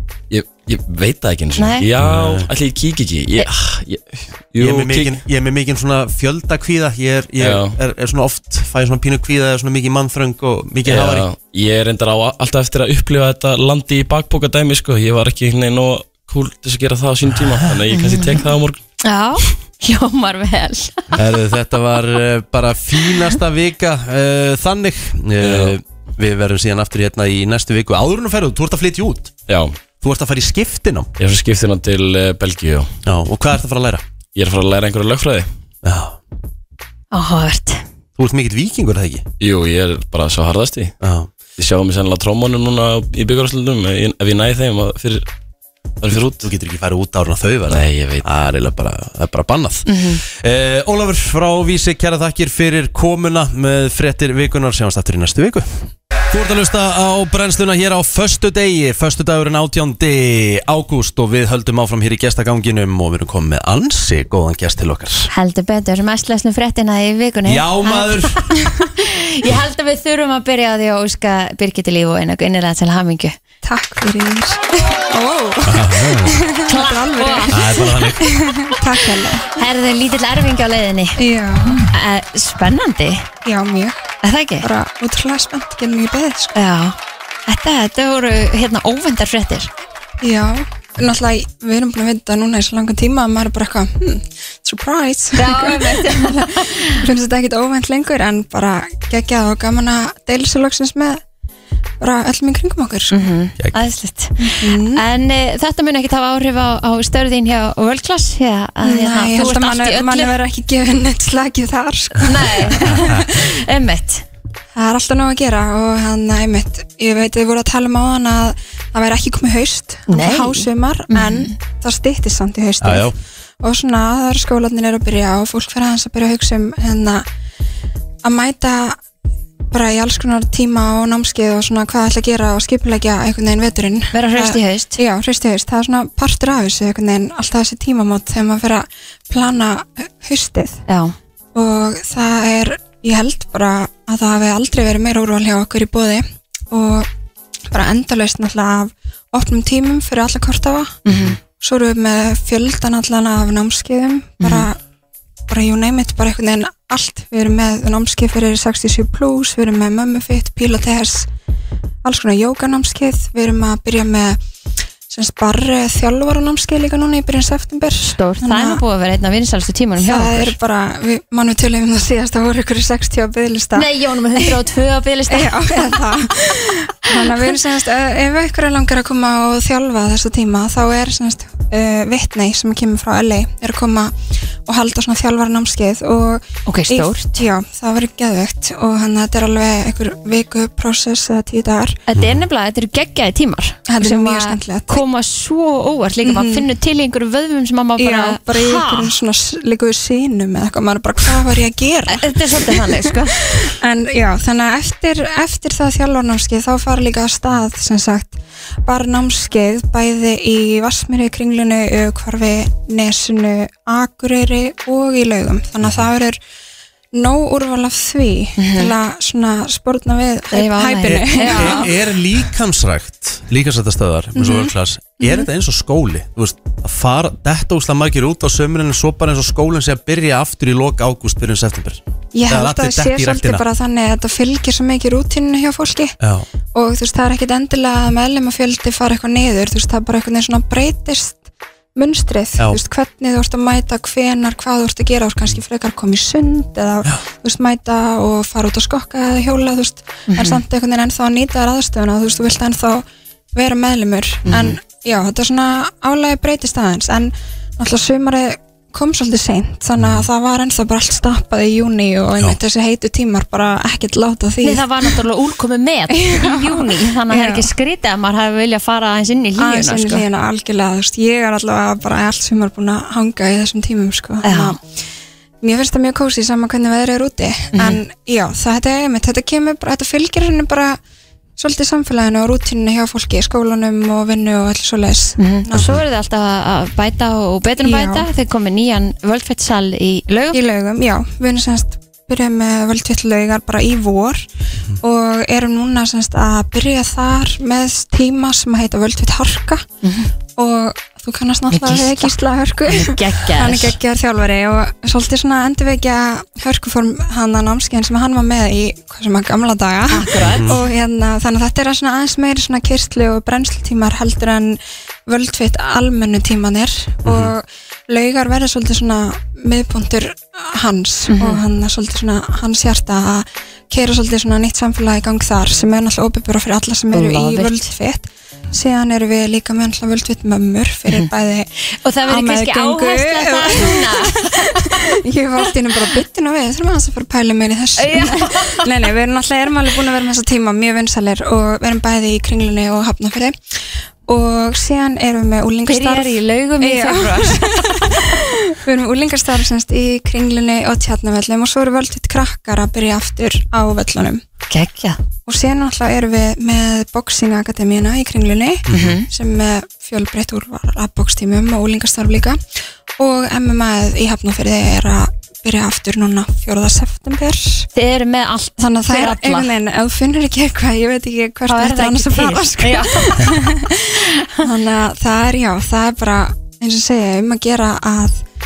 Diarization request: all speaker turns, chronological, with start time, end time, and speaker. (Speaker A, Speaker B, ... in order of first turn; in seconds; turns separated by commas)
Speaker A: 0.3-5.2, Speaker B: 1.6-1.9, Speaker C: 2.0-2.5, Speaker C: 4.6-11.3, Speaker A: 7.4-7.8, Speaker A: 10.8-18.8, Speaker C: 17.4-17.7, Speaker B: 17.9-18.3, Speaker B: 19.0-21.1, Speaker C: 21.1-29.3, Speaker A: 25.4-25.7, Speaker A: 29.5-29.8, Speaker C: 30.0-31.1, Speaker A: 31.2-32.9, Speaker C: 33.0-34.0, Speaker A: 34.3-35.5, Speaker C: 35.8-36.2, Speaker B: 37.1-37.8, Speaker C: 38.2-39.2, Speaker A: 39.4-40.9, Speaker C: 41.0-41.3, Speaker A: 41.6-45.3, Speaker A: 46.0-46.5, Speaker C: 46.4-55.8, Speaker A: 47.7-48.2, Speaker B: 49.9-50.2, Speaker C: 56.3-65.3, Speaker B: 65.3-73.4, Speaker C: 67.4-68.5, Speaker D: 73.6-79.5, Speaker C: 75.6-76.4, Speaker B: 76.7-78.0, Speaker C: 77.5-78.4, Speaker B: 79.5-81.2, Speaker D: 81.2-81.9, Speaker B: 81.8-83.3, Speaker D: 83.4-84.0, Speaker B: 84.2-84.7, Speaker D: 84.6-86.5, Speaker B: 86.5-87.0, Speaker B: 87.5-89.7, Speaker D: 90.2-101.2, Speaker B: 95.3-97.0, Speaker D: 102.0-103.2, Speaker B: 103.1-110.4, Speaker D: 104.4-105.0, Speaker D: 108.8-113.3, Speaker B: 112.2-114.2, Speaker C: 112.9-113.2, Speaker D: 114.7-127.2, Speaker B: 120.1-121.5, Speaker C: 122.8-123.2, Speaker D: 128.2-129.0, Speaker D: 129.7-140.8, Speaker B: 134.1-135.0, Speaker B: 140.9-141.1, Speaker D: 141.5-147.1, Speaker D: 147.7-154.8, Speaker B: 151.0-151.4, Speaker B: 154.4-154.7, Speaker D: 155.5-161.3, Speaker D: 162.0-164.4, Speaker D: 165.1-168.8, Speaker B: 168.0-170.5, Speaker D: 170.0-174.6, Speaker B: 173.7-176.0, Speaker D: 175.3-192.0, Speaker B: 186.7-187.4, Speaker B: 192.1-199.1, Speaker D: 193.9-195.0, Speaker D: 196.2-196.7, Speaker D: 198.0-216.4, Speaker B: 202.1-203.4, Speaker C: 215.8-216.1, Speaker D: 217.1-222.0, Speaker B: 218.6-218.9, Speaker B: 220.5-221.9, Speaker C: 221.2-233.6, Speaker D: 224.3-225.5, Speaker D: 232.3-236.1, Speaker C: 236.2-236.4, Speaker D: 236.7-265.2, Speaker B: 250.3-250.6, Speaker B: 254.4-254.8, Speaker C: 260.0-260.3, Speaker B: 264.6-270.2, Speaker D: 266.1-267.7, Speaker D: 269.6-274.8, Speaker B: 274.4-274.8, Speaker D: 275.6-281.0, Speaker B: 277.7-278.0, Speaker D: 281.6-285.9, Speaker B: 285.4-290.6, Speaker C: 285.7-286.0, Speaker D: 287.8-288.3, Speaker D: 290.5-294.4, Speaker D: 295.0-299.8, Speaker B: 300.0-300.3, Speaker D: 300.6-331.7, Speaker B: 301.7-303.9, Speaker B: 310.1-310.8, Speaker C: 310.4-310.8, Speaker C: 317.2-317.5, Speaker B: 321.3-321.6, Speaker B: 327.1-327.9, Speaker B: 332.0-335.1, Speaker D: 332.2-343.6, Speaker B: 335.6-336.1, Speaker B: 338.0-338.9, Speaker D: 344.3-354.4, Speaker B: 345.9-348.2, Speaker B: 354.7-355.2, Speaker D: 355.4-362.6, Speaker C: 358.9-359.2, Speaker B: 358.9-359.3, Speaker D: 363.2-367.9, Speaker B: 367.9-369.7, Speaker D: 368.8-378.4, Speaker B: 371.7-373.7